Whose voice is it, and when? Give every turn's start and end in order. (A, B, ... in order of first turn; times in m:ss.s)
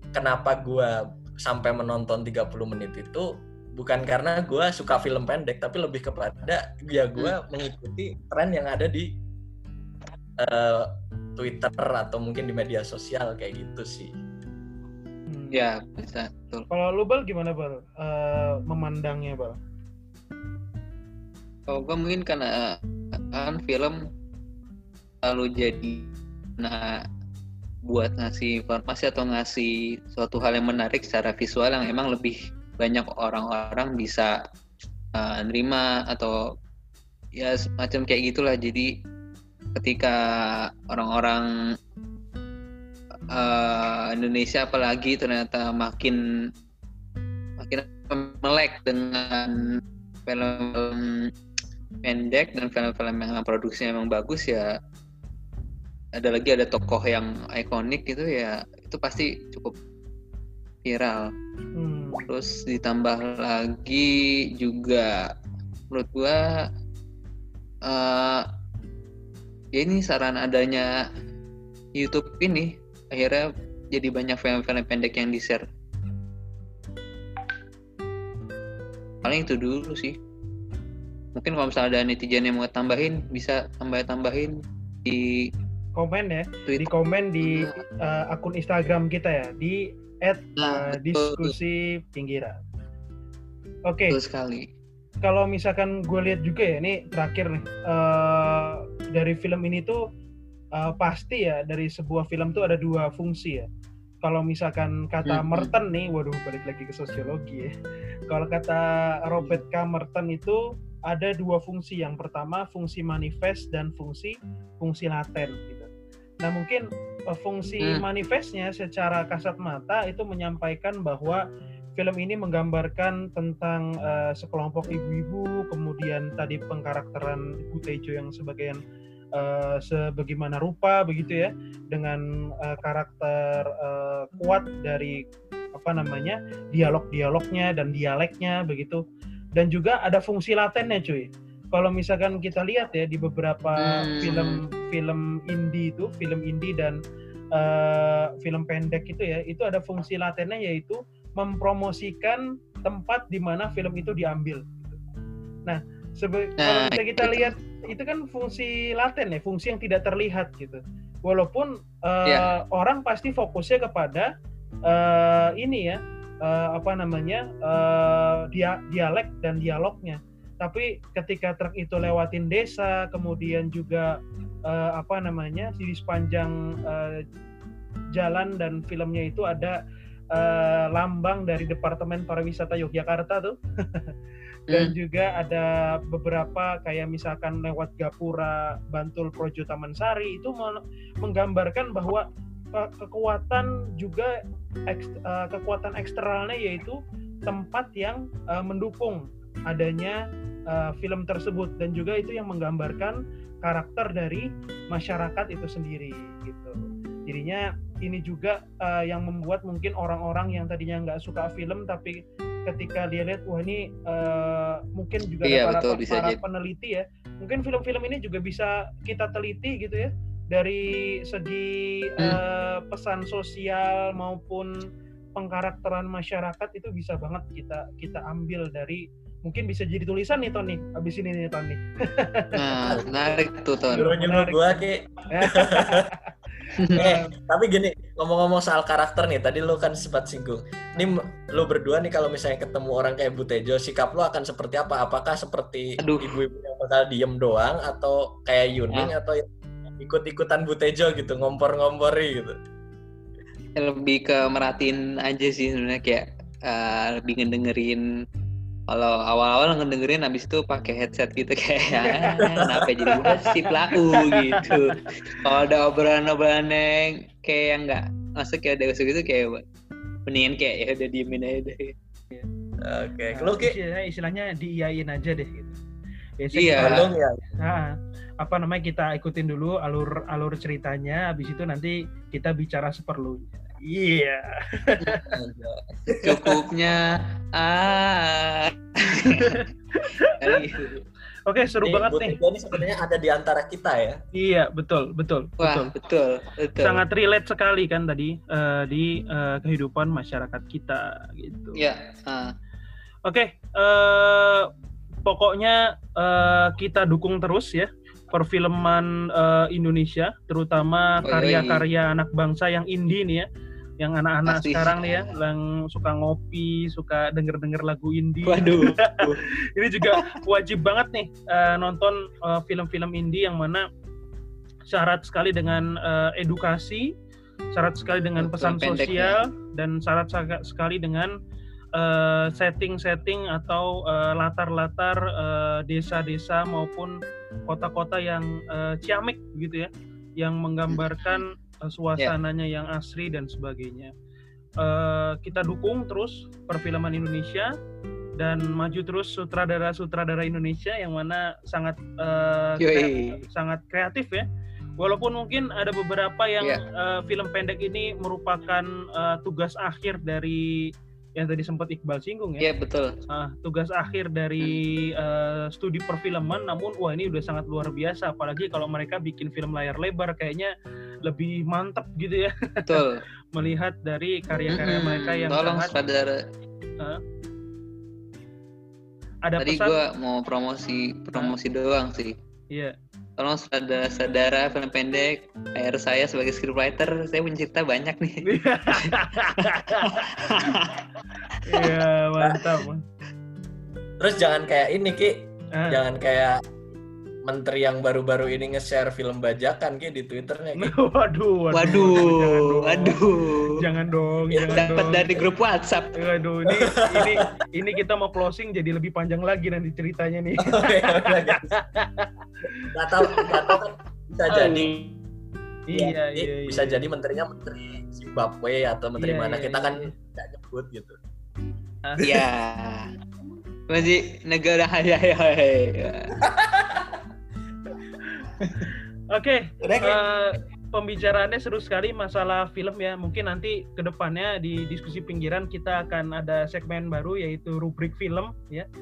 0:00.1-0:09.1 A
0:10.4-0:14.1 A
0:15.3-0:15.7 B
0:15.5-0:16.7 C
0:16.7-0:19.6 B
0:21.7-0:24.0 C
0:25.2-0:27.0 C
0:27.9-0:34.3 C
0:35.1-0:36.4 C
0:37.4-0:38.9 C
0:39.7-0:41.7 C
0:43.3-0:46.2 C
0:47.6-0:51.3 C
0:52.0-0:54.7 C
0:56.2-0:59.7 C
1:00.8-1:01.3 C
1:01.8-1:02.3 B
1:02.3-1:05.2 C
1:05.9-1:06.4 C
1:07.9-1:08.4 C
1:09.7-1:10.9 C
1:12.0-1:15.6 C
1:19.2-1:20.2 C
1:21.3-1:25.5 C
1:26.0-1:32.6 B
1:27.4-1:27.8 C
1:30.6-1:31.5 C
1:33.9-1:34.2 B
1:34.1-1:34.7 C
1:35.2-1:40.0 B
1:40.8-1:43.6 B
1:44.2-1:47.7 B
1:45.2-1:45.7 C
1:48.3-1:55.9 B
1:56.4-2:01.4 B
2:02.0-2:08.8 B
2:09.4-2:15.2 B
2:15.8-2:19.0 B
2:19.6-2:27.0 B
2:23.8-2:24.6 C
2:27.5-2:35.0 B
2:35.6-2:44.3 B
2:36.6-2:37.5 C
2:44.9-2:57.2 B
2:58.1-2:59.8 B
3:00.3-3:04.1 B
3:04.7-3:14.3 B
3:14.9-3:20.2 B
3:20.7-3:44.7 B
3:35.4-3:36.4 C
3:45.4-3:52.8 B
3:52.5-3:54.1 C
3:52.8-3:53.1 A
3:53.9-3:56.0 A
3:53.9-3:57.3 B
3:56.8-3:57.2 C
3:57.0-4:09.4 A
4:06.0-4:06.4 C
4:10.0-4:12.5 A
4:13.8-4:18.0 C
4:18.9-4:29.6 C
4:22.0-4:22.4 B
4:22.4-4:23.4 A
4:23.1-4:24.9 B
4:30.3-4:31.9 C
4:32.8-4:33.8 A
4:33.3-4:35.8 B
4:36.4-4:37.1 B
4:36.5-4:37.1 C
4:36.8-4:37.4 A
4:37.6-4:45.3 B
4:45.2-4:46.6 A
4:46.2-4:49.6 C
4:49.1-4:50.6 B
4:50.2-4:51.0 C
4:51.5-4:52.4 B
4:51.8-4:54.2 A
4:54.4-4:55.9 B
4:55.6-4:57.0 C
4:56.8-5:01.8 B
5:01.7-5:02.5 C
5:03.2-5:04.6 B
5:05.2-5:13.5 B
5:11.2-5:11.8 C
5:14.0-5:23.8 B
5:14.4-5:15.3 C
5:18.4-5:19.4 C
5:24.9-5:27.1 B
5:27.8-5:31.3 B
5:28.4-5:29.4 C
5:32.0-5:37.1 B
5:37.7-5:44.1 B
5:40.9-5:41.4 C
5:44.8-5:47.7 B
5:48.4-5:54.4 B
5:52.8-5:53.4 C
5:55.0-6:02.7 B
6:02.6-6:03.2 C
6:03.3-6:10.7 B
6:11.2-6:16.0 B
6:12.9-6:13.2 C
6:14.7-6:16.4 C
6:19.4-6:20.0 B
6:19.6-6:22.4 C
6:23.4-6:29.2 C
6:28.4-6:30.7 B
6:30.0-6:31.0 C
6:31.6-6:33.0 B
6:34.2-6:36.6 A
6:35.8-6:36.0 B
6:37.4-6:40.9 A
6:40.8-6:43.2 B
6:41.7-6:43.8 C
6:43.8-6:45.4 B
6:44.5-6:46.1 C
6:46.2-6:53.4 B
6:47.0-6:47.3 A
6:50.6-6:51.8 A
6:52.9-6:54.9 A
6:54.5-6:55.0 B
6:55.9-6:57.0 B
6:56.0-7:01.2 A
6:59.2-7:00.1 B
7:02.2-7:03.1 C
7:03.9-7:06.3 C
7:06.4-7:07.1 A
7:09.3-7:18.9 B
7:09.8-7:10.2 A